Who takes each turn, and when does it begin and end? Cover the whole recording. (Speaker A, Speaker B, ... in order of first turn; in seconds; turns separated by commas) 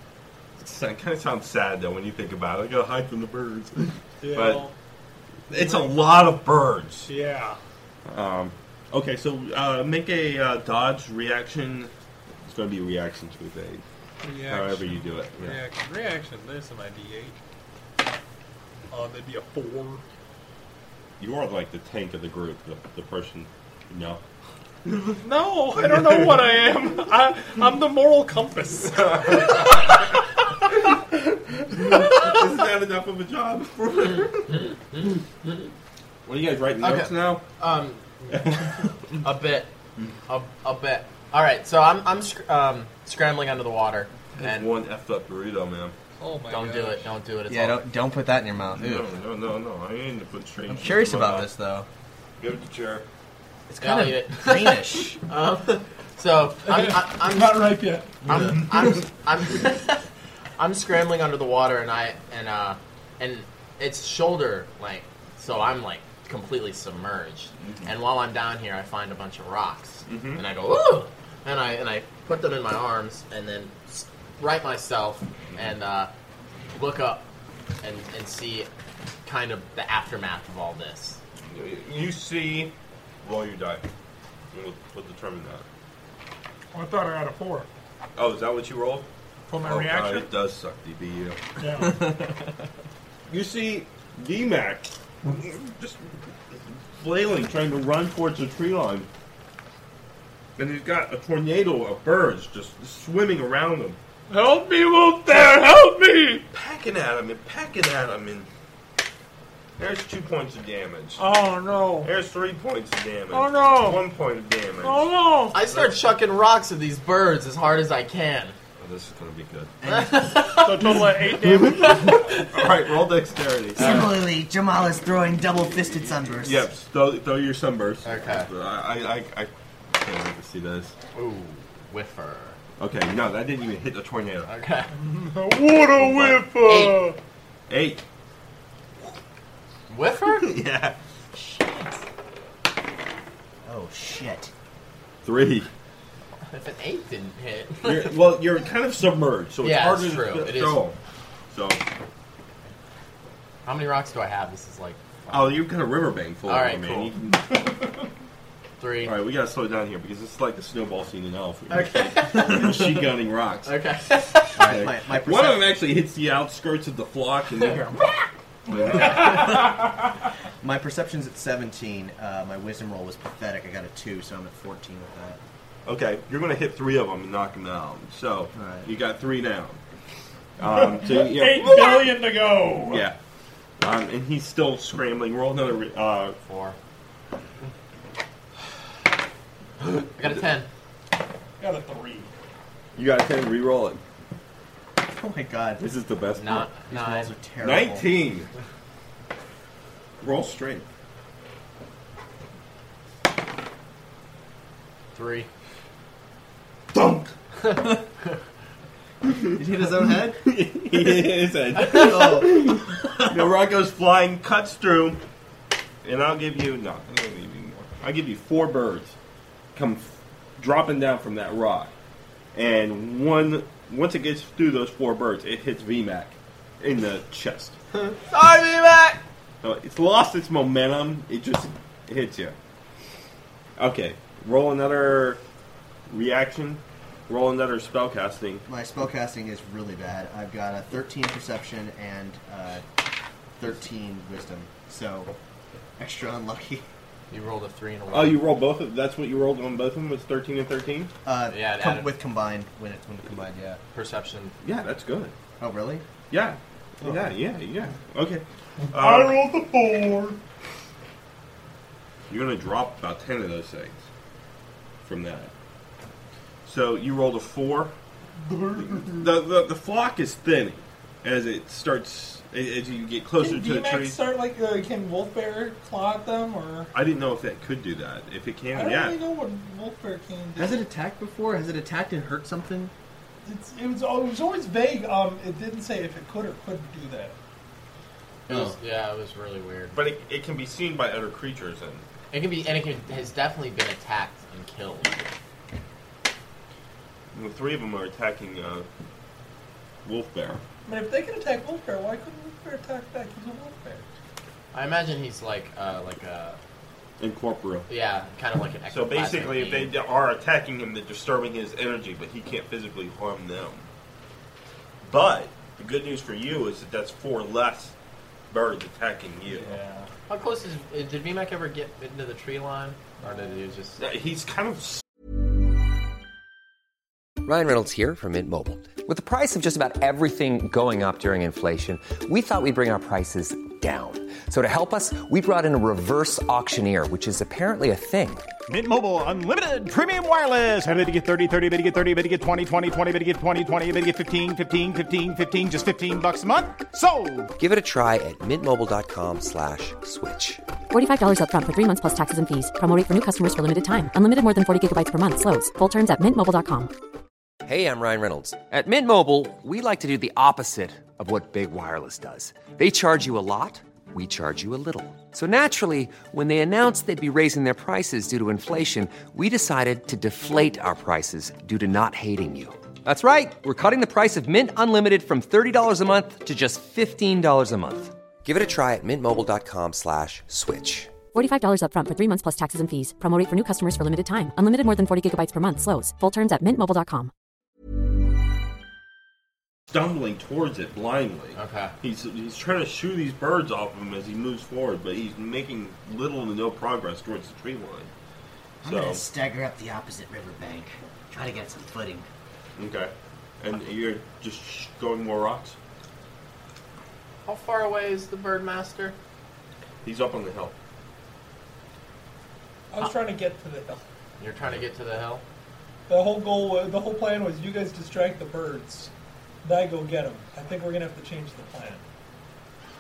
Speaker A: 0.6-4.7, Speaker B: 4.2-4.7, Speaker A: 5.5-7.1, Speaker B: 5.5-6.0, Speaker B: 7.0-7.6, Speaker A: 8.1-11.9, Speaker A: 12.4-13.8, Speaker B: 14.2-17.4, Speaker A: 14.4-15.6, Speaker B: 18.9-20.0, Speaker A: 21.2-24.2, Speaker A: 24.8-26.7, Speaker B: 25.2-29.7, Speaker A: 29.2-29.9, Speaker A: 31.1-34.7, Speaker A: 36.2-37.4, Speaker C: 36.8-39.7, Speaker A: 38.3-38.9, Speaker C: 40.3-44.7, Speaker A: 44.4-46.0, Speaker B: 46.2-47.0, Speaker C: 46.5-47.8, Speaker D: 47.5-49.0, Speaker A: 48.7-51.5, Speaker D: 50.7-51.9, Speaker A: 52.4-53.0, Speaker D: 53.7-55.2, Speaker C: 53.8-60.0, Speaker B: 56.6-58.5, Speaker C: 60.6-76.1, Speaker A: 67.6-67.9, Speaker A: 70.1-70.4, Speaker C: 76.7-77.3, Speaker C: 77.8-78.7, Speaker C: 79.2-81.2, Speaker A: 81.5-82.7, Speaker A: 83.2-83.8, Speaker A: 84.5-85.6, Speaker B: 86.7-87.7, Speaker A: 88.2-89.1, Speaker B: 89.5-90.3, Speaker A: 89.6-91.9, Speaker B: 91.6-92.1, Speaker A: 93.3-99.1, Speaker A: 100.6-104.0, Speaker B: 104.3-106.4, Speaker A: 106.5-108.5, Speaker A: 109.8-111.3, Speaker B: 111.2-112.1, Speaker A: 111.9-116.0, Speaker B: 113.3-114.0, Speaker B: 114.8-115.6, Speaker C: 115.5-118.5, Speaker A: 118.8-119.8, Speaker D: 119.8-120.2, Speaker C: 119.8-120.9, Speaker B: 120.5-122.4, Speaker A: 121.3-121.7, Speaker C: 121.8-122.4, Speaker A: 122.4-124.2, Speaker E: 123.8-126.5, Speaker D: 126.0-126.6, Speaker A: 126.4-130.9, Speaker C: 128.0-128.5, Speaker C: 131.1-132.6, Speaker A: 132.8-134.5, Speaker C: 134.5-134.9, Speaker B: 134.9-137.2, Speaker A: 135.9-136.7, Speaker C: 136.7-137.0, Speaker A: 137.7-138.0, Speaker C: 139.9-140.5, Speaker A: 140.3-140.9, Speaker D: 143.7-144.5, Speaker A: 145.2-145.7, Speaker C: 146.5-148.1, Speaker A: 147.8-151.0, Speaker C: 149.6-150.8, Speaker A: 151.5-151.8, Speaker C: 153.7-155.6, Speaker A: 155.3-157.6, Speaker C: 156.4-157.1, Speaker C: 158.8-159.1, Speaker A: 159.0-163.8, Speaker C: 161.7-163.1, Speaker C: 163.6-164.7, Speaker D: 164.5-165.7, Speaker A: 164.6-168.0, Speaker A: 168.7-169.7, Speaker B: 169.1-169.7, Speaker D: 170.6-175.4, Speaker A: 175.8-179.8, Speaker D: 178.5-178.9, Speaker A: 180.6-183.2, Speaker B: 180.6-183.1, Speaker A: 183.8-186.4, Speaker C: 186.4-186.8, Speaker C: 190.0-190.7, Speaker B: 191.6-192.3, Speaker A: 192.9-194.0, Speaker D: 195.1-195.8, Speaker A: 195.8-196.7, Speaker C: 196.4-197.3, Speaker D: 196.9-198.1, Speaker A: 197.6-198.5, Speaker A: 200.2-200.9, Speaker C: 205.1-205.5, Speaker A: 206.9-207.3, Speaker C: 207.6-208.3, Speaker D: 209.5-210.4, Speaker A: 210.4-215.2, Speaker D: 211.8-213.4, Speaker A: 216.0-219.2, Speaker A: 219.7-221.9, Speaker A: 222.5-227.8, Speaker C: 227.9-229.2, Speaker A: 229.6-232.5, Speaker A: 233.8-235.4, Speaker A: 236.1-238.6, Speaker D: 238.7-242.8, Speaker D: 243.6-245.3, Speaker D: 246.0-246.8, Speaker C: 247.3-248.4, Speaker A: 248.1-251.1, Speaker D: 251.2-253.8, Speaker C: 251.5-252.1, Speaker C: 253.9-254.6, Speaker A: 254.6-255.3, Speaker D: 255.6-256.1, Speaker A: 256.3-259.6, Speaker B: 258.8-260.4, Speaker A: 262.3-264.1, Speaker A: 265.0-265.5, Speaker A: 266.6-267.9, Speaker B: 268.4-269.3, Speaker A: 268.8-274.2, Speaker B: 273.4-276.9, Speaker A: 276.9-279.2, Speaker B: 278.7-280.8, Speaker D: 280.6-282.9, Speaker B: 283.4-287.3, Speaker C: 288.5-289.9, Speaker A: 289.9-292.0, Speaker C: 292.3-295.3, Speaker A: 297.3-298.9, Speaker A: 300.0-300.6, Speaker B: 300.9-304.0, Speaker C: 304.7-306.6, Speaker A: 307.2-307.9, Speaker C: 307.9-309.9, Speaker A: 308.9-313.9, Speaker A: 315.0-317.9, Speaker A: 318.5-319.8, Speaker B: 319.5-320.1, Speaker C: 320.3-324.0, Speaker A: 324.0-325.0, Speaker F: 327.4-338.5, Speaker G: 338.7-347.5, Speaker F: 347.5-350.6, Speaker H: 350.9-356.9, Speaker F: 357.6-381.1, Speaker H: 381.3-387.3, Speaker A: 389.9-398.1, Speaker C: 391.5-391.9, Speaker A: 398.8-399.2, Speaker E: 398.8-402.3, Speaker A: 402.8-405.8, Speaker C: 407.4-409.2, Speaker A: 410.0-410.8, Speaker B: 412.9-414.0, Speaker C: 414.4-415.4, Speaker B: 416.1-419.1, Speaker B: 419.6-422.0